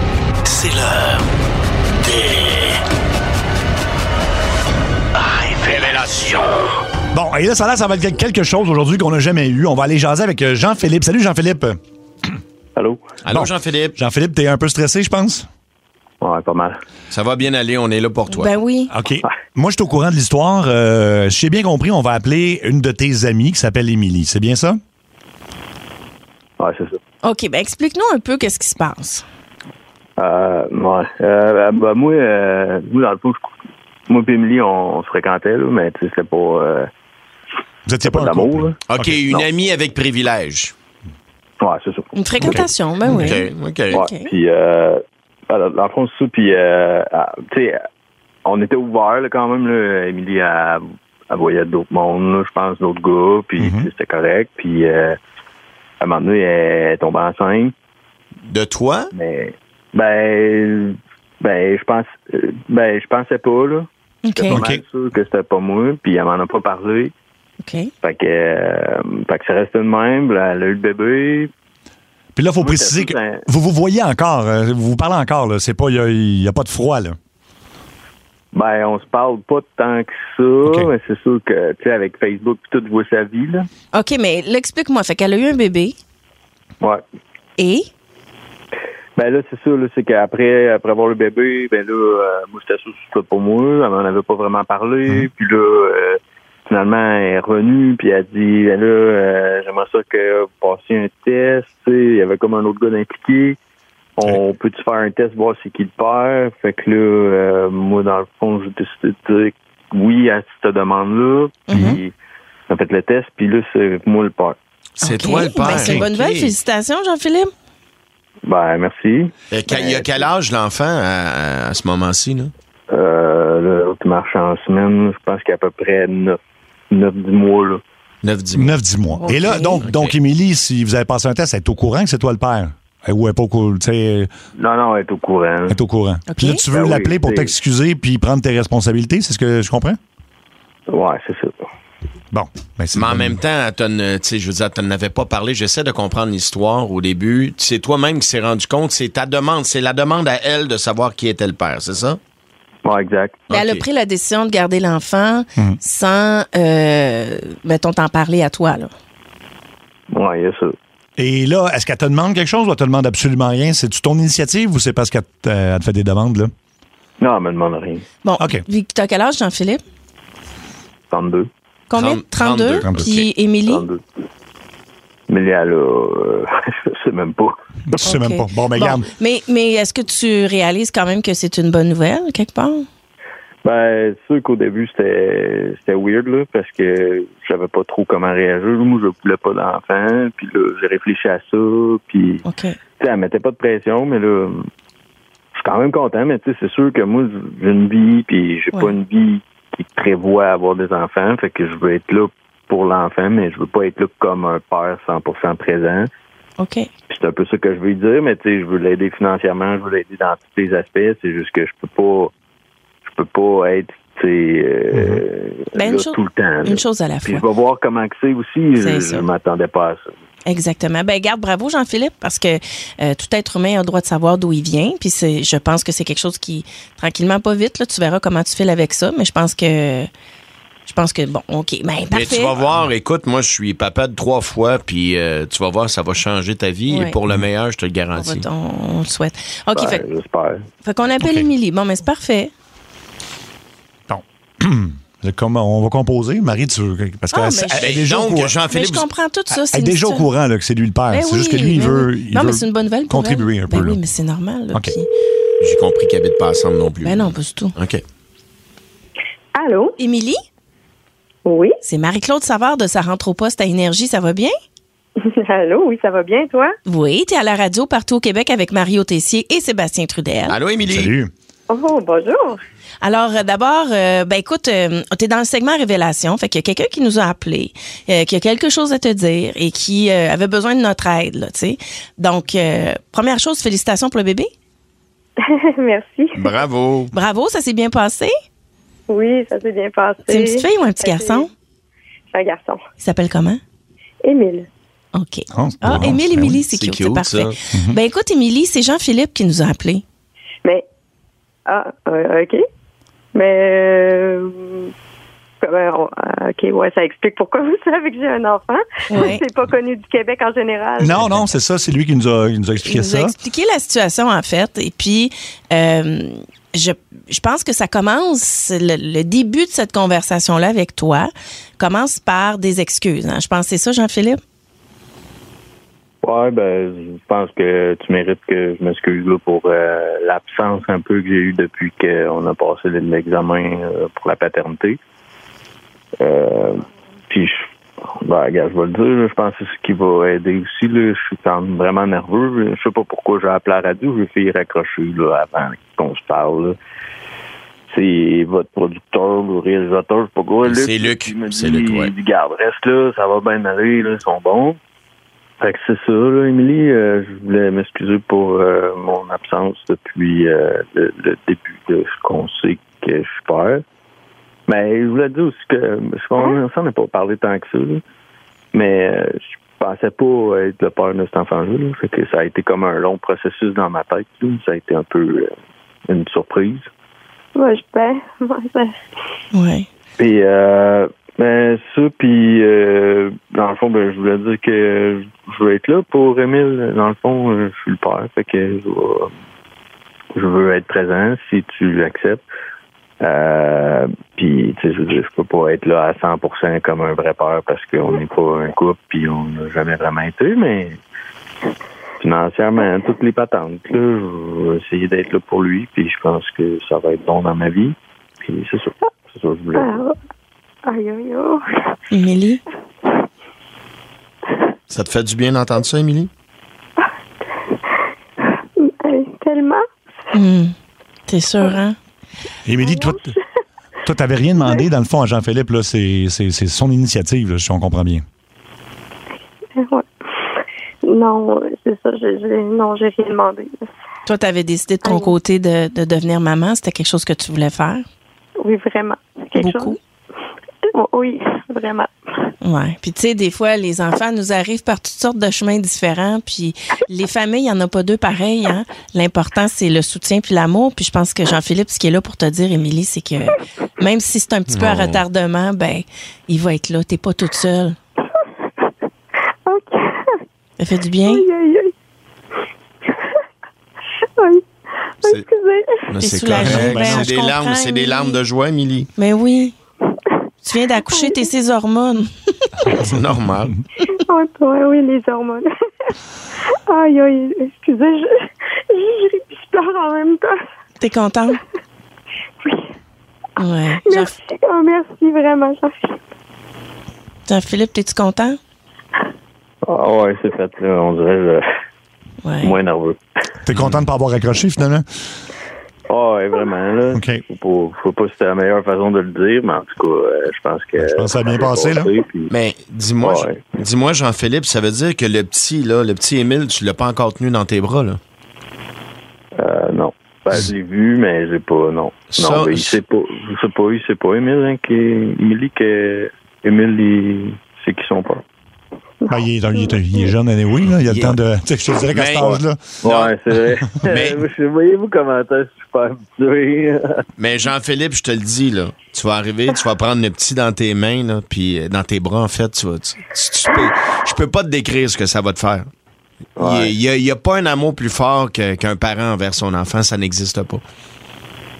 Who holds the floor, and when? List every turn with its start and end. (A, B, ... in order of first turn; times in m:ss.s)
0:05.3-0:06.7 A
0:07.1-0:11.8 B
0:12.8-0:13.0 C
0:13.2-0:13.9 A
0:13.3-0:15.5 B
0:16.2-0:16.8 C
0:17.1-0:18.5 A
0:18.3-0:18.9 D
0:18.9-0:24.8 B
0:26.6-0:27.0 C
0:27.2-0:29.2 D
0:30.2-0:33.5 C
0:34.1-0:36.9 C
0:37.8-0:39.3 B
0:38.0-0:38.8 C
0:38.9-0:40.7 A
0:41.6-0:42.6 C
0:42.1-0:44.3 D
0:42.4-0:43.2 B
0:43.1-0:44.0 A
0:43.9-0:47.8 C
0:48.4-0:55.2 C
0:53.6-0:53.9 B
0:56.0-0:57.7 C
0:58.4-0:59.1 A
0:59.1-1:03.9 C
1:04.2-1:04.6 D
1:04.4-1:07.1 C
1:04.5-1:04.8 B
1:07.6-1:07.9 D
1:08.0-1:11.5 C
1:12.4-1:17.2 B
1:12.6-1:13.4 C
1:18.5-1:23.7 C
1:23.9-1:26.0 D
1:27.6-1:27.9 D
1:29.2-1:43.6 C
1:44.2-1:52.1 C
1:51.7-1:52.0 D
1:52.7-1:54.6 C
1:55.0-1:56.6 A
1:55.0-1:57.5 D
1:58.4-2:00.3 C
1:59.5-2:02.5 A
2:02.9-2:06.4 C
2:06.9-2:07.8 C
2:08.2-2:08.8 A
2:08.5-2:14.3 B
2:09.1-2:09.8 D
2:09.8-2:10.2 A
2:14.6-2:15.8 C
2:15.7-2:20.0 B
2:16.3-2:16.6 D
2:16.7-2:17.5 C
2:20.9-2:21.5 C
2:22.3-2:23.4 B
2:22.9-2:32.2 A
2:32.8-2:33.4 C
2:33.5-2:33.8 A
2:33.5-2:38.9 D
2:40.1-2:40.7 C
2:41.2-2:46.5 B
2:47.2-2:48.0 C
2:48.2-2:49.8 D
2:51.1-2:51.5 C
2:51.9-2:53.8 D
2:51.9-2:53.3 A
2:52.8-2:53.1 B
2:53.7-2:54.0 C
2:55.3-2:57.5 C
2:57.9-2:59.1 B
2:58.0-3:02.8 D
3:03.6-3:12.4 C
3:12.4-3:12.8 D
3:13.0-3:14.7 C
3:15.6-3:26.1 C
3:26.6-3:26.9 D
3:27.1-3:32.3 C
3:33.0-3:40.1 C
3:34.9-3:35.2 B
3:35.7-3:37.4 D
3:38.8-3:39.2 D
3:40.5-3:50.1 D
3:50.8-3:52.6 D
3:52.1-3:58.5 A
3:56.9-3:57.2 D
3:58.1-4:00.0 D
3:59.7-4:00.6 C
4:00.8-4:02.5 D
4:01.2-4:01.5 B
4:04.1-4:08.6 B
4:07.3-4:08.0 D
4:07.8-4:09.1 A
4:08.7-4:10.3 D
4:09.5-4:14.0 B
4:11.1-4:15.1 D
4:15.6-4:18.0 A
4:17.0-4:17.8 D
4:19.5-4:20.0 E
4:20.0-4:20.4 D
4:21.4-4:21.8 E
4:21.8-4:24.5 D
4:25.2-4:26.7 E
4:26.8-4:30.6 D
4:30.5-4:31.1 A
4:30.9-4:31.3 B
4:31.7-4:32.6 E
4:33.0-4:44.5 D
4:45.4-4:46.5 E
4:46.3-4:47.1 A
4:47.1-4:48.3 D
4:49.1-4:51.5 E
4:50.3-4:51.5 D
4:52.3-4:52.8 E
4:53.0-4:53.6 D
4:54.2-4:54.7 E
4:55.1-5:00.0 D
4:55.5-4:56.6 B
4:56.7-4:57.5 A
4:57.7-4:58.0 B
5:01.6-5:02.6 E
5:03.3-5:04.9 E
5:05.6-5:11.2 E
5:09.1-5:09.4 D
5:11.0-5:13.3 B
5:12.8-5:24.4 D
5:26.2-5:35.0 C
5:36.2-5:37.6 C
5:38.2-5:46.8 C
5:47.9-5:54.8 C
5:50.6-5:52.1 A
5:55.6-6:03.8 C
6:04.7-6:08.0 C
6:08.7-6:15.5 C
6:16.1-6:16.8 C
6:17.5-6:18.9 E
6:19.5-6:19.9 D
6:20.2-6:29.3 C
6:30.3-6:32.4 C
6:33.2-6:41.0 C
6:42.2-6:50.0 C
6:49.7-6:50.2 E
6:50.8-6:52.0 E
6:52.1-6:52.6 D
6:54.9-6:56.3 A
6:57.0-6:59.8 E
7:00.3-7:00.7 D
7:01.3-7:02.0 D
7:02.6-7:03.3 B
7:02.8-7:03.2 E
7:04.0-7:08.2 B
7:09.8-7:10.1 E
7:11.0-7:13.9 E
7:14.2-7:18.0 D
7:15.0-7:15.3 E
7:18.6-7:20.0 E
7:19.6-7:20.0 D
7:20.9-7:22.5 E
7:22.6-7:38.0 D
7:34.7-7:35.2 A
7:38.3-7:38.9 E
7:39.6-7:40.4 E
7:40.8-7:41.4 D
7:41.2-7:41.9 E
7:43.1-7:43.4 E
7:44.4-7:44.6 E
7:45.2-7:46.1 E
7:46.1-7:49.1 A
7:46.2-7:48.4 D
7:46.5-7:47.3 B
7:49.2-7:49.7 D
7:50.6-7:53.0 D
7:51.0-7:51.4 E
7:52.9-7:53.7 A
7:54.1-7:56.1 E
7:56.9-8:00.6 E
8:01.0-8:01.6 D
8:02.6-8:02.9 E
8:03.6-8:04.3 D
8:04.0-8:06.2 E
8:07.4-8:08.6 D
8:09.8-8:11.6 C
8:12.4-8:12.7 D
8:12.6-8:13.2 C
8:13.6-8:15.0 B
8:13.7-8:14.1 A
8:16.1-8:22.5 C
8:17.1-8:17.4 B
8:21.0-8:22.1 B
8:22.5-8:28.2 A
8:23.2-8:23.6 C
8:29.6-8:38.4 C
8:32.3-8:33.0 A
8:39.2-8:40.3 E
8:39.3-8:43.0 B
8:40.8-8:41.4 A
8:42.1-8:43.4 A
8:42.4-8:47.2 C
8:44.0-8:44.4 A
8:47.4-8:55.9 A
8:56.6-8:56.9 C
8:56.6-9:00.8 A